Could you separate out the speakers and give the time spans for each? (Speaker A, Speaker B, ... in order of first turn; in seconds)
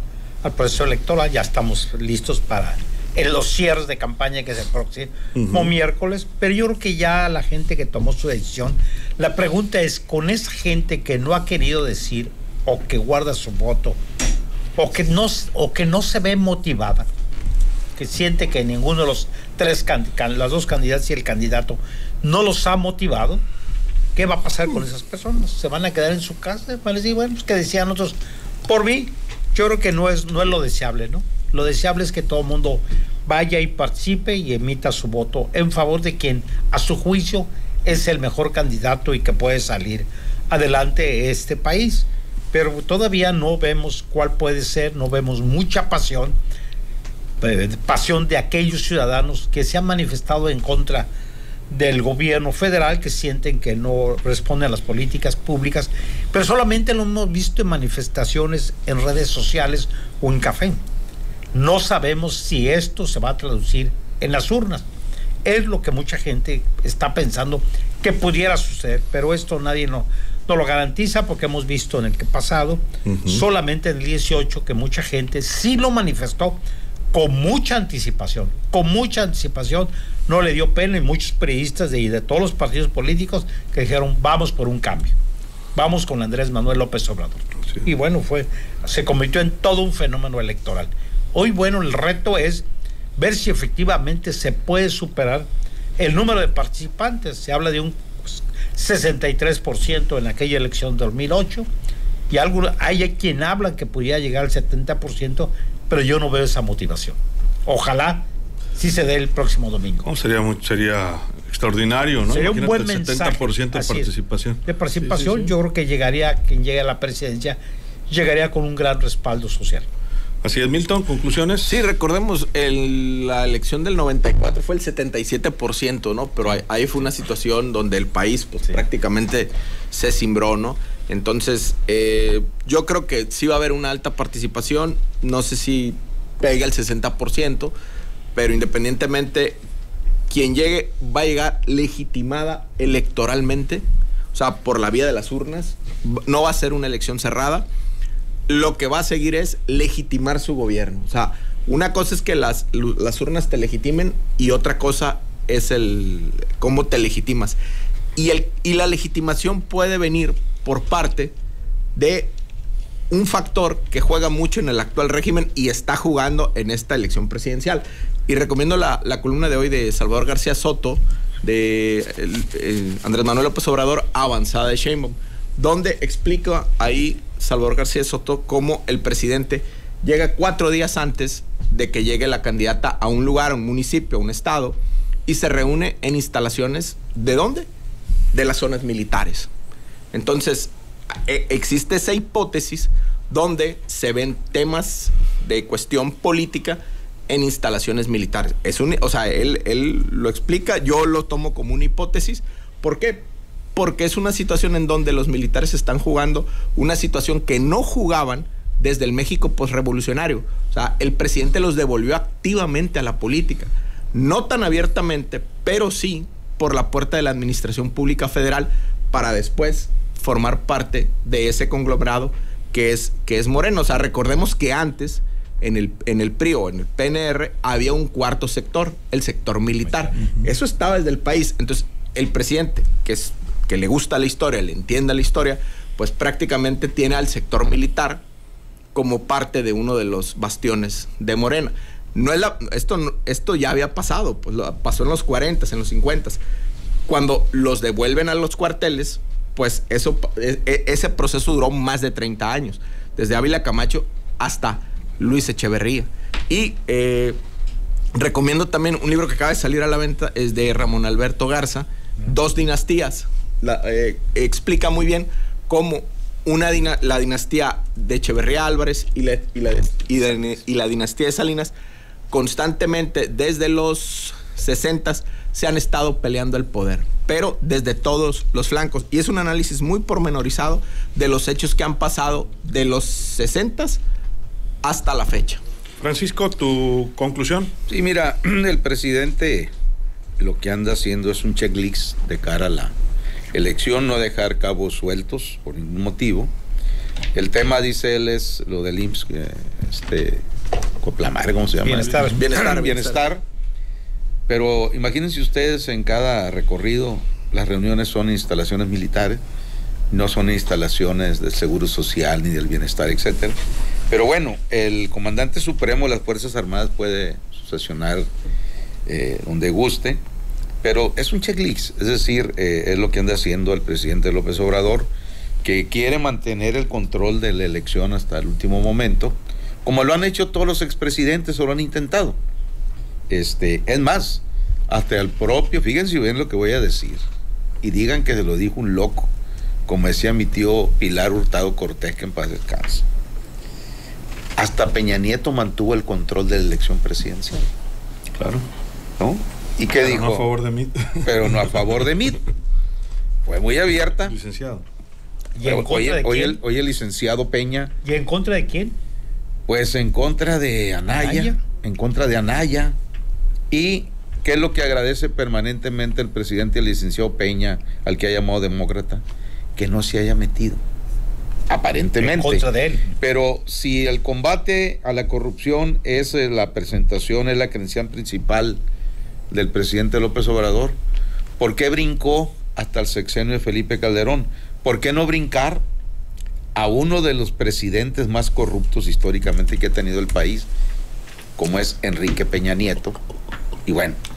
Speaker A: 0.4-14.0, 14.8-17.1, 18.0-23.4, 24.2-46.4, 47.4-51.1, 51.7-60.8, 61.5-64.9, 65.5-76.6, 77.1-85.2, 85.8-92.7, 93.2-101.7, 102.3-110.1, 112.3-114.1, 114.7-119.9, 301.8-302.5, 355.6-356.6, 358.0-359.0, 361.1-361.6, 372.2-373.2
Speaker B: 5.4-5.7, 73.0-73.4, 110.0-114.6, 120.4-121.8, 286.0-287.7, 348.4-348.6, 350.0-351.9, 354.3-354.8
Speaker C: 121.7-137.7, 138.3-139.6, 140.3-147.7, 148.5-157.6, 158.2-161.3, 161.9-162.3, 163.1-187.7, 188.3-189.5, 190.1-238.2, 238.9-246.4, 247.1-257.4, 258.1-271.7, 272.3-284.0, 284.8-285.6, 302.4-303.2
Speaker D: 287.9-289.7, 290.4-292.9, 293.5-296.5, 297.4-300.5, 301.0-303.4, 304.5-309.4, 310.1-313.6, 314.1-318.3, 319.1-320.2, 320.8-325.1, 325.6-332.4, 333.3-337.3, 337.8-339.3, 339.9-343.1, 344.6-347.7, 349.2-350.5, 351.2-352.4, 353.5-354.4, 355.6-357.9, 359.7-363.0, 363.7-369.2, 369.8-370.8, 371.7-372.7, 373.2-378.8, 379.5-381.0, 381.6-385.8, 386.8-390.7, 391.6-393.2, 393.9-394.2